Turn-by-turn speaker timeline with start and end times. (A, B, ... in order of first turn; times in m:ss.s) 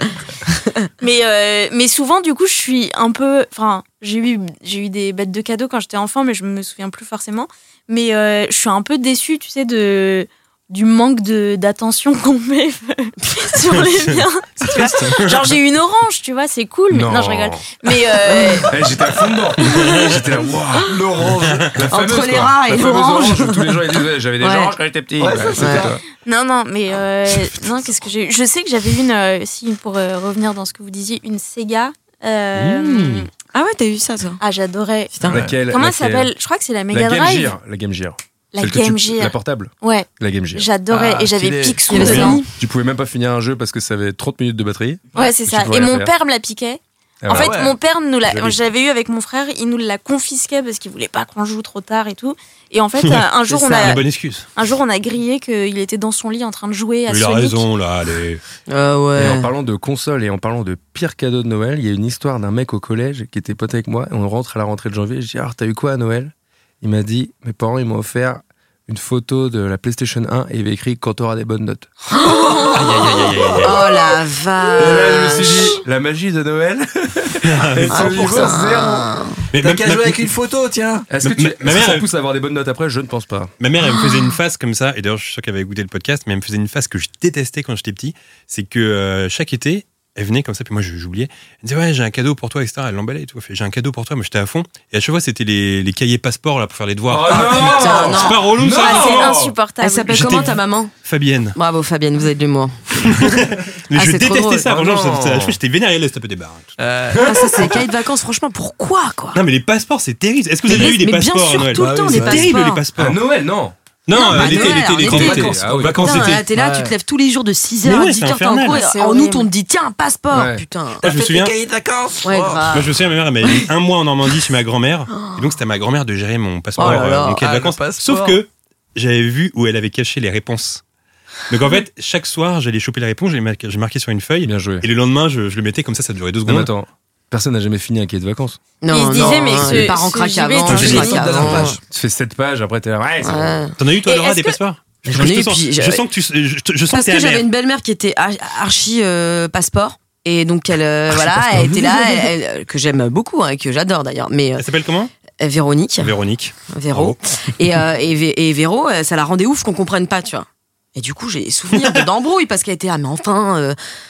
0:00.5-0:00.8 A
0:01.0-0:19.1 B
0:14.6-0:15.5 C
0:16.9-0:17.8 D
0:18.3-0:18.7 A
0:18.6-0:26.0 D
0:19.6-0:20.2 B
0:20.8-0:21.8 E
0:21.9-0:23.9 A
0:24.4-0:24.7 A
0:25.2-0:26.0 E
0:25.6-0:25.9 A
0:26.2-0:33.3 B
0:32.5-0:33.3 C
0:33.5-0:34.4 A
0:34.4-0:37.6 B
0:35.1-0:35.4 A
0:35.2-0:36.3 D
0:36.9-0:40.7 D
0:38.5-0:42.5 B
0:40.9-0:42.4 E
0:41.9-0:42.5 A
0:42.0-0:46.1 D
0:45.1-0:57.6 B
0:47.2-0:47.7 D
0:47.3-0:47.8 E
0:48.2-0:48.6 D
0:53.0-0:54.5 C
0:53.5-0:53.9 A
0:57.1-0:58.4 C
0:58.7-0:59.5 A
0:59.1-1:11.9 D
1:12.2-1:12.7 A
1:12.6-1:13.8 C
1:13.6-1:15.8 A
1:14.7-1:19.1 D
1:17.4-1:18.2 C
1:17.9-1:19.4 A
1:18.1-1:18.5 E
1:19.5-1:20.3 C
1:19.5-1:21.0 E
1:21.1-1:23.5 D
1:21.2-1:22.0 C
1:23.6-1:39.4 C
1:37.1-1:39.5 D
1:37.3-1:38.5 A
1:38.7-1:40.6 B
1:39.8-1:40.9 A
1:40.1-1:41.6 C
1:41.5-1:43.3 A
1:43.0-1:46.8 C
1:43.9-1:44.7 A
1:44.7-1:45.6 D
1:46.8-1:47.8 E
1:47.2-1:49.4 A
1:49.3-1:53.2 C
1:50.7-1:52.8 A
1:51.8-1:52.6 E
1:53.0-1:53.7 D
1:54.0-1:56.4 C
1:54.1-2:01.1 A
1:54.4-1:56.4 D
1:55.0-1:56.9 E
1:57.8-1:58.8 C
1:58.6-1:59.5 B
2:00.3-2:00.6 D
2:01.0-2:01.5 C
2:01.0-2:02.8 E
2:02.2-2:03.7 A
2:02.7-2:10.8 C
2:05.1-2:05.4 A
2:06.8-2:07.4 A
2:06.8-2:08.4 E
2:11.5-2:16.7 C
2:14.4-2:14.8 D
2:16.4-2:18.6 D
2:18.8-2:21.8 A
2:18.9-2:21.4 B
2:19.2-2:20.0 D
2:20.7-2:21.8 E
2:20.7-2:23.7 D
2:23.2-2:23.8 A
2:23.8-2:27.5 C
2:24.1-2:24.5 B
2:25.0-2:26.0 A
2:26.9-2:34.6 A
2:34.6-2:35.1 C
2:35.4-2:36.1 A
2:36.0-2:37.2 C
2:36.7-2:43.8 A